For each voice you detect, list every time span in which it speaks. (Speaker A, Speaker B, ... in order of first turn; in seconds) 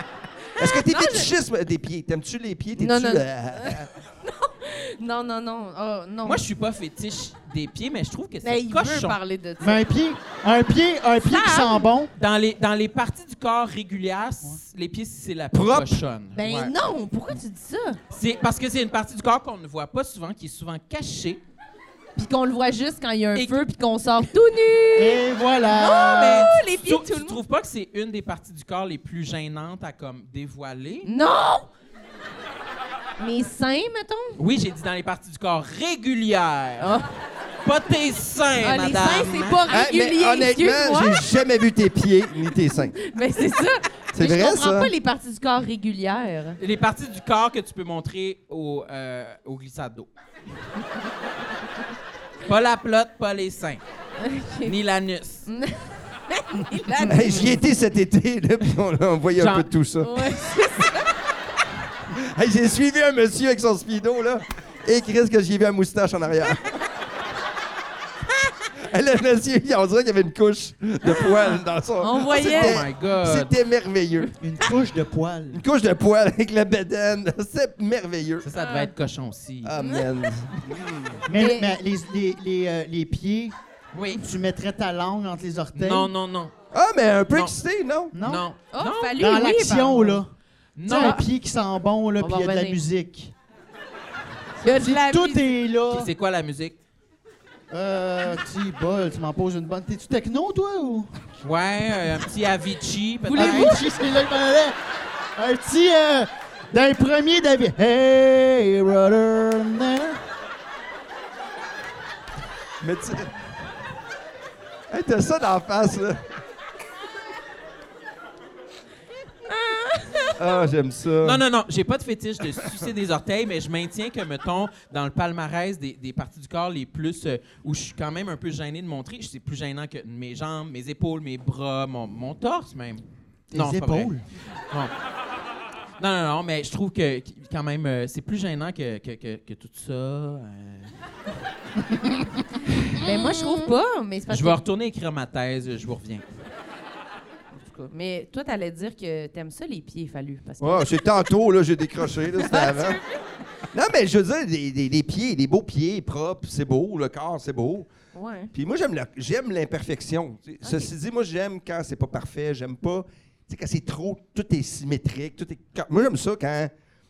Speaker A: 0.6-3.9, 15.5-16.0, 39.7-43.0, 44.1-44.9, 57.0-60.3, 62.1-66.7, 68.8-74.3, 75.5-78.5, 79.6-81.2, 86.7-88.2, 112.8-113.3, 114.9-116.2, 120.4-121.4, 150.6-153.0, 153.7-157.9, 158.5-166.7
Speaker B: 0.6-1.3, 2.8-6.4, 8.4-9.8, 11.2-11.9, 16.4-18.0, 22.2-27.4, 31.0-31.7, 33.2-34.4, 36.8-37.1, 38.6-41.3, 43.0-46.6, 54.2-54.7, 55.5-57.6, 60.0-61.1, 71.5-72.8, 78.6-78.9, 79.8-80.1, 81.3-81.8, 88.7-90.2, 90.9-91.2, 92.2-92.8, 94.6-95.5, 103.3-103.8, 119.5-120.5, 143.0-144.6, 147.6-150.9, 152.4-153.0, 158.1-158.5, 160.6-160.9
Speaker C: 6.2-9.2, 12.2-16.7, 18.1-21.4, 23.4-23.6, 25.9-31.1, 34.4-36.9, 37.6-39.7, 46.6-50.1, 52.5-53.8, 54.6-55.5, 59.4-59.7, 72.3-73.5, 78.4-79.7, 83.9-84.2, 85.8-86.5, 87.3-87.6, 88.2-89.2, 90.8-91.2, 95.9-96.8, 101.4-103.8, 121.2-134.2, 136.0-140.9, 144.3-146.2
Speaker D: 9.6-12.1, 25.0-26.5, 74.4-75.6, 81.3-83.6, 84.2-86.1, 88.1-88.5, 89.2-90.3, 90.8-93.3, 94.7-96.1, 97.7-101.2, 103.3-104.8, 105.4-110.2, 133.5-134.2